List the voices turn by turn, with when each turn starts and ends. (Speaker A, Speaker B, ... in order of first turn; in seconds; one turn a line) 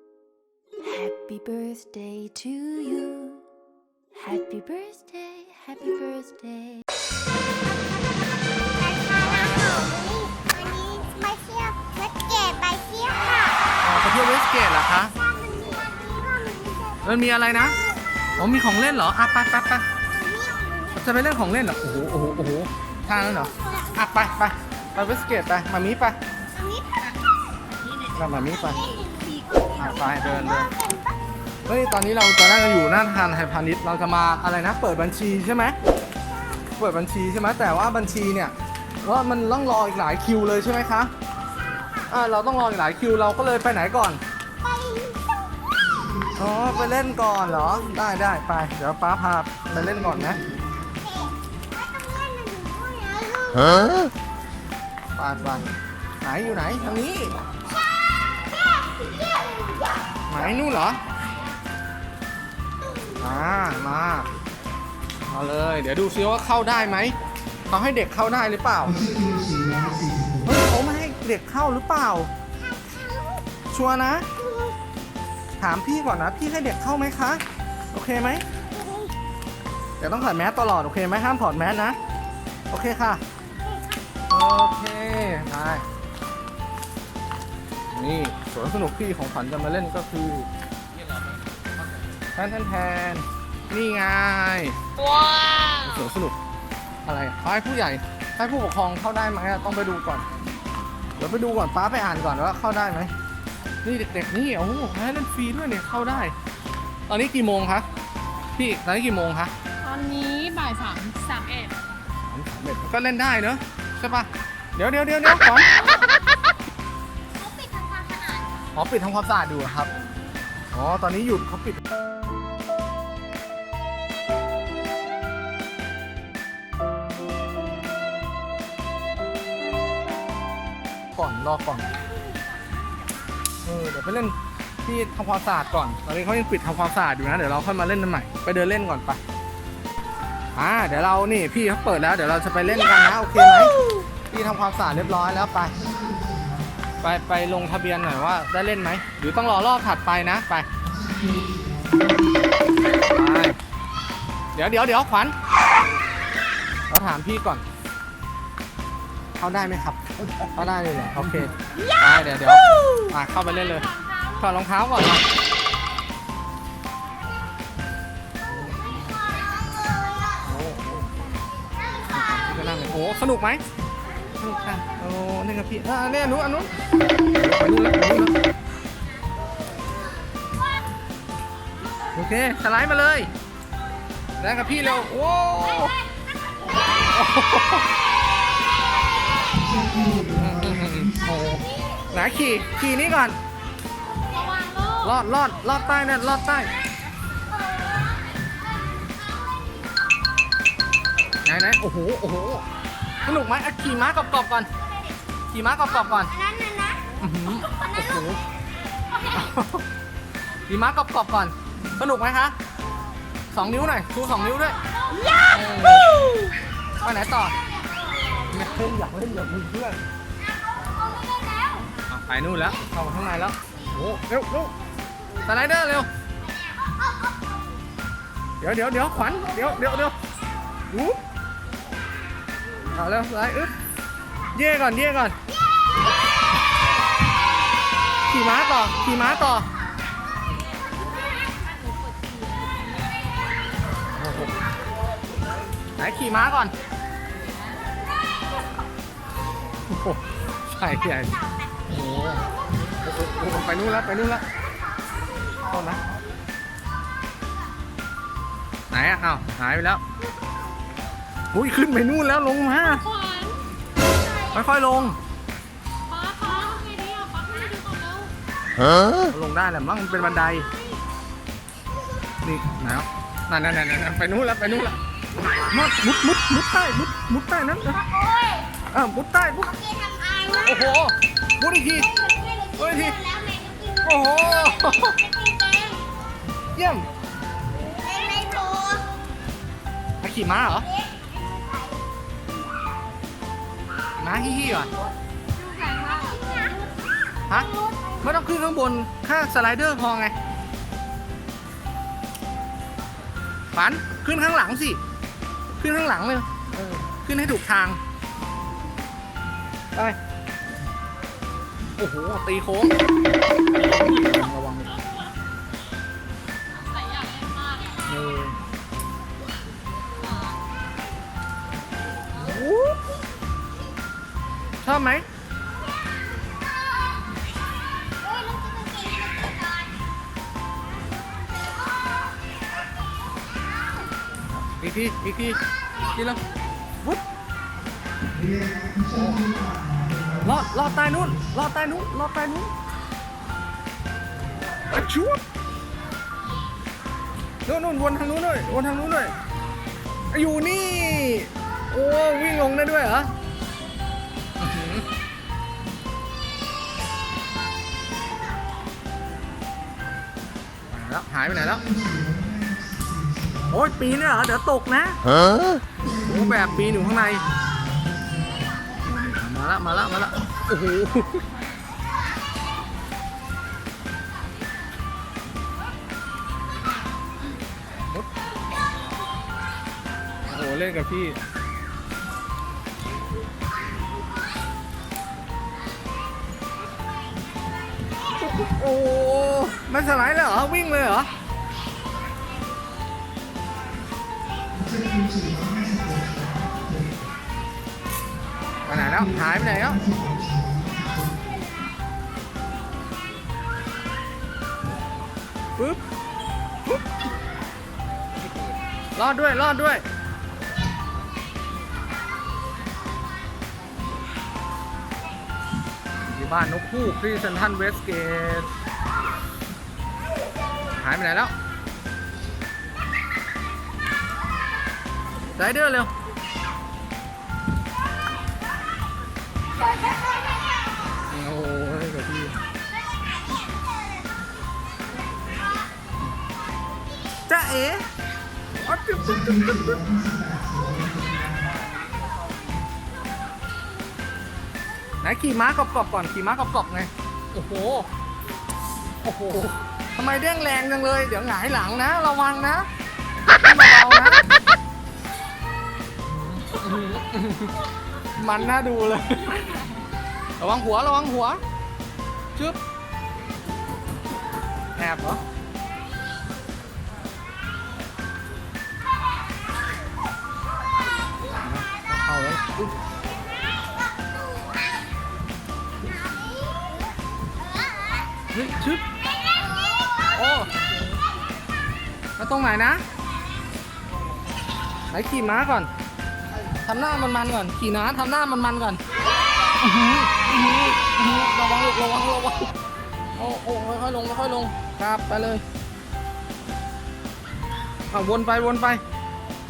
Speaker A: 0.9-3.4
Speaker A: 5.1-6.8
Speaker B: 8.8-13.6
Speaker C: 13.8-15.1
Speaker B: 15.2-17.1
Speaker C: 17.0-17.8
Speaker C: 18.4-19.8
Speaker B: 20.1-21.0
Speaker C: 20.9-26.2
Speaker B: 23.2-24.0
Speaker B: 26.6-26.8
Speaker C: 28.1-28.9
Speaker B: 28.4-31.1
Speaker C: 29.8-30.7
Speaker C: 31.7-35.8
Speaker C: 36.8-41.1
Speaker C: 42.1-44.2
Speaker B: 44.6-45.8
Speaker C: 46.4-50.4
Speaker B: 51.0-54.1
Speaker C: 55.1-55.7
Speaker C: 56.2-57.4
Speaker C: 60.3-61.0
Speaker C: 63.2-64.3
Speaker C: 65.3-67.2
Speaker C: 67.7-69.1
Speaker B: 69.2-70.1
Speaker C: 70.4-72.3
Speaker B: 72.9-73.4
Speaker C: 73.7-74.3
Speaker C: 75.6-78.4
Speaker C: 80.0-82.0
Speaker C: 82.7-83.2
Speaker C: 84.3-85.8
Speaker C: 87.9-90.5
Speaker C: 92.3-94.8
Speaker D: 95.1-95.8
Speaker C: 95.8-96.3
Speaker C: 97.0-100.2
Speaker C: 101.2-103.1
Speaker C: 103.8-106.3
Speaker C: 107.1-107.9
Speaker C: 108.6-109.5
Speaker D: 109.8-111.8
Speaker C: 112.3-115.7
Speaker D: 117.4-118.5
Speaker B: 117.5-117.9
Speaker C: 118.7-119.9
Speaker C: 120.7-121.8
Speaker C: 131.1-131.9
Speaker C: 133.6-139.2
Speaker C: 140.5-143.7
Speaker C: 144.3-145.8
Speaker C: 147.0-150.7
Speaker C: 153.0-153.6
Speaker C: 154.5-155.3
Speaker C: 156.9-157.6
Speaker C: 159.4-165.2
Speaker D: 163.4-164.5
Speaker D: 168.6-169.1
Speaker B: 169.6-170.1
Speaker C: 170.4-171.1
Speaker C: 172.1-173.6
Speaker C: 174.4-176.7
Speaker C: 177.3-178.3
Speaker C: 182.1-183.3
Speaker C: 184.4-185.9
Speaker C: 187.0-187.9
Speaker B: 189.6-190.1
Speaker C: 190.3-193.4
Speaker D: 194.3-195.1
Speaker C: 195.0-196.7
Speaker C: 201.4-202.6
Speaker C: 203.2-204.7
Speaker C: 205.5-206.3
Speaker B: 206.3-207.0
Speaker C: 207.2-208.4
Speaker C: 209.3-209.8
Speaker C: 210.7-212.6
Speaker C: 213.5-214.8
Speaker C: 215.5-216.1
Speaker C: 217.0-217.5
Speaker C: 218.5-220.0
Speaker D: 220.9-221.9
Speaker C: 222.1-224.7
Speaker C: 225.4-226.1
Speaker B: 226.4-227.4
Speaker C: 228.6-230.1
Speaker C: 230.9-231.2
Speaker C: 232.9-233.7
Speaker C: 234.5-235.3
Speaker C: 238.3-239.7
Speaker D: 242.3-242.6
Speaker C: 244.1-244.6
Speaker C: 246.0-246.7
Speaker C: 249.9-251.3
Speaker C: 251.9-254.4
Speaker C: 255.7-256.0
Speaker C: 258.9-260.0
Speaker C: 261.5-263.1
Speaker D: 263.1-263.6
Speaker C: 264.5-265.2
Speaker D: 266.1-268.3
Speaker C: 269.2-270.7
Speaker C: 272.4-275.0
Speaker C: 275.6-278.0
Speaker B: 277.9-278.7
Speaker C: 278.9-279.7
Speaker B: 279.6-280.8
Speaker C: 280.6-282.1
Speaker B: 282.0-286.1
Speaker C: 282.8-283.2
Speaker C: 284.0-285.2
Speaker C: 286.8-287.1
Speaker B: 287.9-289.1
Speaker C: 290.2-290.9
Speaker B: 290.8-292.0
Speaker C: 294.2-294.9
Speaker D: 295.6-296.8
Speaker B: 295.8-296.8
Speaker D: 297.6-298.1
Speaker C: 298.2-300.3
Speaker C: 303.7-305.0
Speaker C: 305.8-308.0
Speaker C: 312.0-312.9
Speaker C: 313.8-314.9
Speaker D: 317.0-317.8
Speaker C: 318.1-318.6
Speaker C: 322.4-323.0
Speaker C: 324.8-325.2
Speaker B: 328.2-329.9
Speaker C: 334.6-335.6
Speaker C: 336.1-336.4
Speaker C: 339.0-339.6
Speaker C: 340.4-342.7
Speaker C: 344.9-345.4
Speaker C: 347.6-349.3
Speaker C: 350.3-353.3
Speaker C: 354.6-355.1
Speaker C: 360.9-361.9
Speaker C: 363.7-365.2
Speaker C: 366.1-367.5
Speaker C: 369.0-371.4
Speaker C: 380.4-381.4
Speaker C: 388.4-391.3
Speaker C: 398.9-400.1
Speaker C: 409.1-410.0
Speaker C: 416.3-418.7
Speaker C: 421.0-421.5
Speaker C: 425.6-426.1
Speaker C: 431.3-432.6
Speaker C: 437.5-438.1
Speaker C: 438.8-440.1
Speaker C: 445.2-448.1
Speaker C: 449.2-452.9
Speaker C: 453.5-454.4
Speaker C: 456.3-457.8
Speaker C: 458.4-459.6
Speaker C: 460.6-461.6
Speaker C: 464.9-465.4
Speaker C: 471.6-472.9
Speaker B: 476.0-476.8
Speaker B: 477.6-478.3
Speaker C: 478.5-479.1
Speaker B: 479.4-480.3
Speaker C: 480.3-480.7
Speaker C: 482.4-483.0
Speaker C: 485.1-485.9
Speaker C: 486.8-489.0
Speaker C: 489.8-492.7
Speaker C: 493.4-495.6
Speaker C: 498.1-499.0